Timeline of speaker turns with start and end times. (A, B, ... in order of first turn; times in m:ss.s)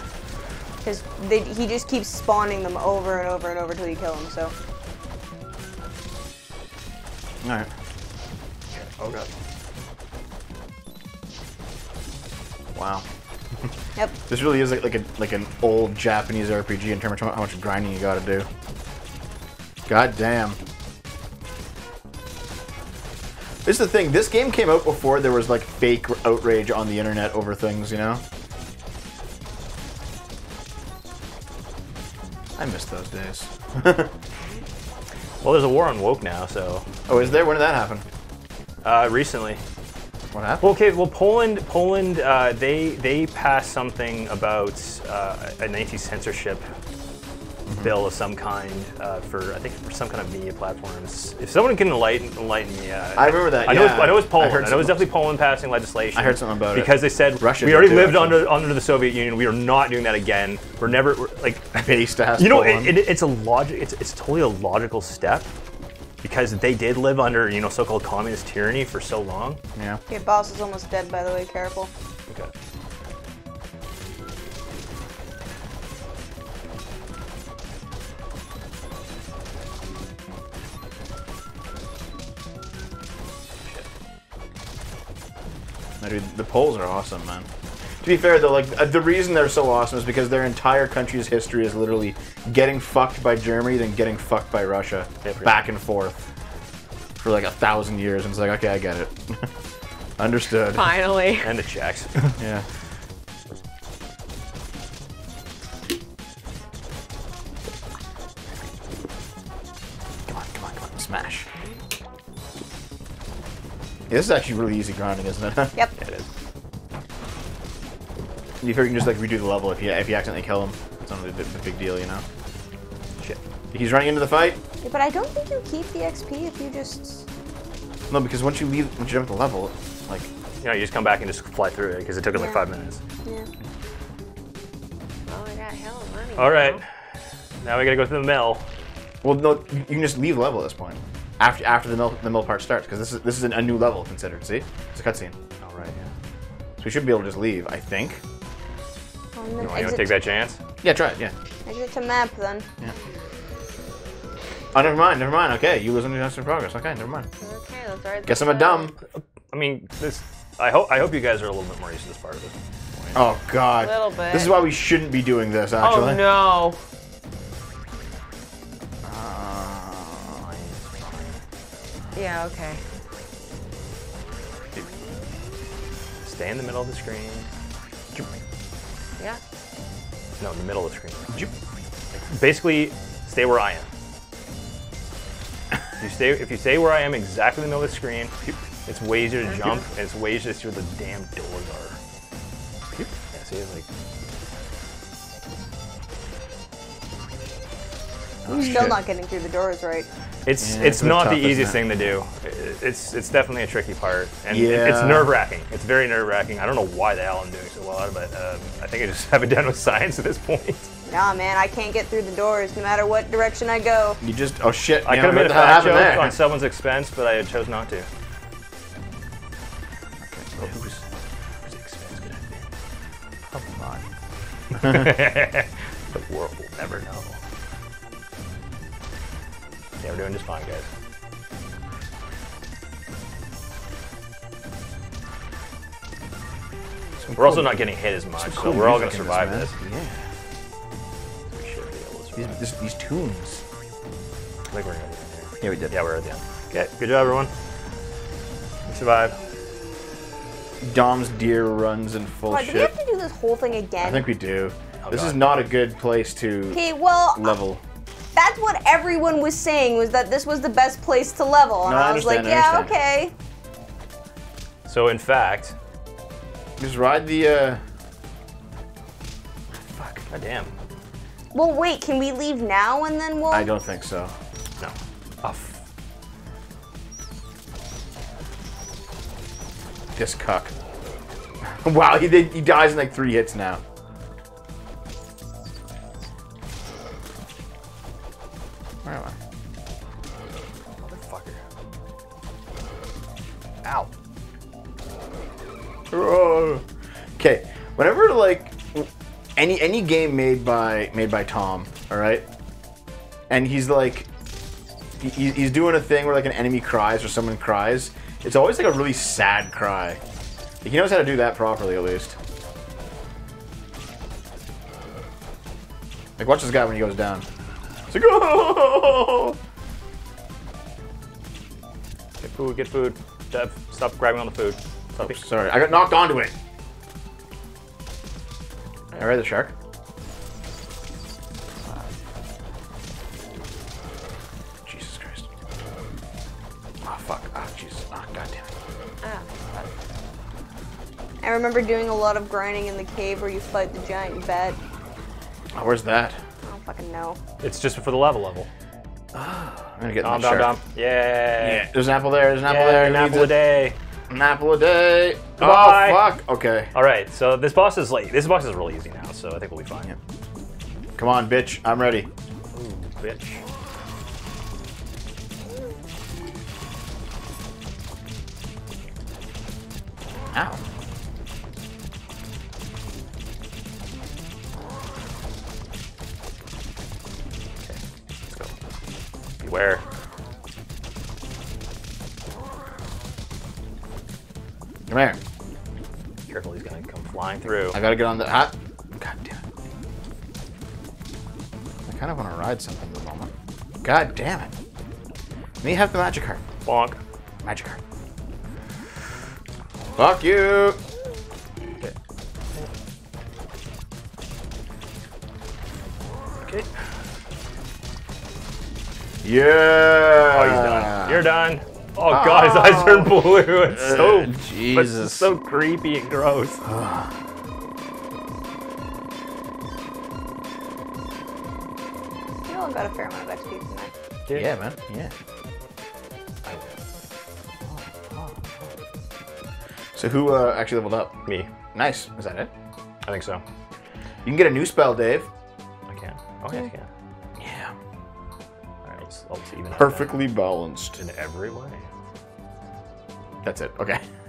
0:00.8-0:04.5 A
0:07.4-0:07.7 B
0:09.0-0:09.3 B
0:12.7-0:13.0 B
0:14.3-0:18.5 B
0:19.9-0:20.6 B
0:23.6-0:28.2 B
0:32.6-0:34.1 B
0:35.4-0:37.3 C
0:37.1-0:38.0 B
0:38.8-0:39.6 C
0:40.3-0:40.6 B
0:40.6-0:46.6 C
0:47.7-0:47.9 B
0:47.8-1:01.7 C
0:53.2-0:55.0 B
0:56.1-0:58.5 B
1:01.7-1:03.0 B
1:02.4-1:05.5 C
1:06.2-1:09.6 C
1:10.1-1:11.9 A
1:26.0-1:27.5 B
1:28.0-1:36.2 B
1:35.2-1:35.6 C
1:37.2-1:39.5 B
1:40.2-1:40.9 B
1:40.7-1:41.5 D
1:41.4-1:42.4 C
1:42.4-1:42.6 B
1:50.3-1:51.5 B
1:54.1-1:55.8 B
1:56.0-1:56.2 C
1:58.6-2:02.2 B
2:03.7-2:04.6 B
2:04.8-2:07.2 A
2:08.1-2:10.3 B
2:10.6-2:13.0 C
2:12.3-2:12.6 A
2:15.3-2:16.8 D
2:16.4-2:16.8 C
2:17.6-2:18.6 C
2:19.2-2:25.3 B
2:25.6-2:26.1 C
2:26.8-2:28.2 B
2:29.3-2:30.1 A
2:29.6-2:30.6 C
2:30.8-2:31.3 B
2:31.6-2:32.6 A
2:34.7-2:37.3 B
2:37.4-2:38.9 D
2:38.2-2:38.9 B
2:39.1-2:42.5 C
2:43.1-2:46.2 B
2:43.8-2:44.5 D
2:45.8-2:46.8 D
2:49.0-2:50.4 B
2:50.4-2:50.8 C
2:52.1-2:52.8 D
2:56.2-2:57.5 C
3:00.4-3:01.5 C
3:02.1-3:03.9 C
3:06.0-3:08.3 C
3:08.8-3:12.0 C
3:09.4-3:09.8 D
3:13.3-3:13.9 C
3:18.4-3:19.0 B
3:18.5-3:20.1 A
3:20.4-3:30.9 C
3:20.6-3:21.8 B
3:24.5-3:25.3 B
3:31.1-3:34.2 A
3:34.2-3:36.4 B
3:35.0-3:38.1 C
3:40.2-3:40.8 B
3:40.6-3:41.0 C
3:41.6-3:42.7 C
3:43.5-3:44.0 B
3:44.7-3:47.4 C
3:50.0-3:50.9 C
3:57.2-3:57.8 B
3:57.4-3:59.7 C
3:58.4-4:00.3 B
4:01.5-4:02.6 C
4:02.4-4:03.6 B
4:04.7-4:07.5 C
4:05.6-4:06.0 B
4:08.9-4:09.4 C
4:10.8-4:12.9 B
4:12.5-4:14.3 A
4:14.0-4:16.8 B
4:15.0-4:15.5 C
4:16.7-4:17.5 A
4:17.3-4:17.8 B
4:18.4-4:23.3 A
4:21.8-4:22.9 B
4:24.8-4:25.7 C
4:26.8-4:27.8 B
4:29.7-4:30.7 C
4:31.5-4:33.7 A
4:33.5-4:34.3 B
4:34.8-4:35.8 C
4:40.1-4:40.7 B
4:41.7-4:43.8 B
4:49.0-4:49.3 B
4:51.0-4:51.6 C
4:53.8-4:54.1 C
4:56.1-4:56.8 B
4:57.4-5:02.4 B
5:03.5-5:04.3 B
5:05.2-5:10.2 B
5:10.8-5:12.4 B
5:16.4-5:17.4 B
5:18.1-5:19.6 B
5:22.4-5:25.4 C
5:25.2-5:26.5 B
5:29.1-5:29.7 B
5:31.8-5:32.1 D
5:34.8-5:35.5 B
5:37.0-5:38.7 B
5:39.2-5:39.9 D
5:41.4-5:44.8 A
5:45.7-5:46.4 B
5:46.6-5:47.4 A
5:47.6-5:48.7 C
5:49.3-5:50.8 B
5:50.2-5:51.9 C
5:51.6-5:53.5 B
5:52.6-5:54.0 C
5:54.3-5:56.9 B
5:55.6-5:56.3 C
5:56.9-6:00.1 C
6:01.2-6:02.3 B
6:02.7-6:03.6 C
6:10.5-6:10.8 B
6:17.8-6:18.7 C
6:19.6-6:20.0 C
6:25.1-6:25.4 B
6:26.5-6:28.0 C
6:27.9-6:29.6 B
6:32.1-6:33.5 B
6:34.0-6:34.7 B
6:35.8-6:36.6 B
6:36.8-6:37.2 C
6:37.6-6:38.0 B
6:40.2-6:41.0 B
6:49.4-6:51.4 B
6:50.5-6:56.8 C
6:52.3-6:55.5 B
6:56.8-6:57.3 B
7:02.7-7:04.1 A
7:04.5-7:04.7 C
7:04.5-7:05.3 B
7:06.6-7:07.0 C
7:07.8-7:08.6 B
7:10.1-7:11.4 B
7:11.9-7:12.7 B
7:13.2-7:13.6 C
7:14.4-7:15.5 B
7:16.1-7:17.1 C
7:17.6-7:17.9 B
7:19.0-7:20.4 C
7:19.9-7:21.2 B
7:21.2-7:22.0 C
7:23.6-7:24.2 B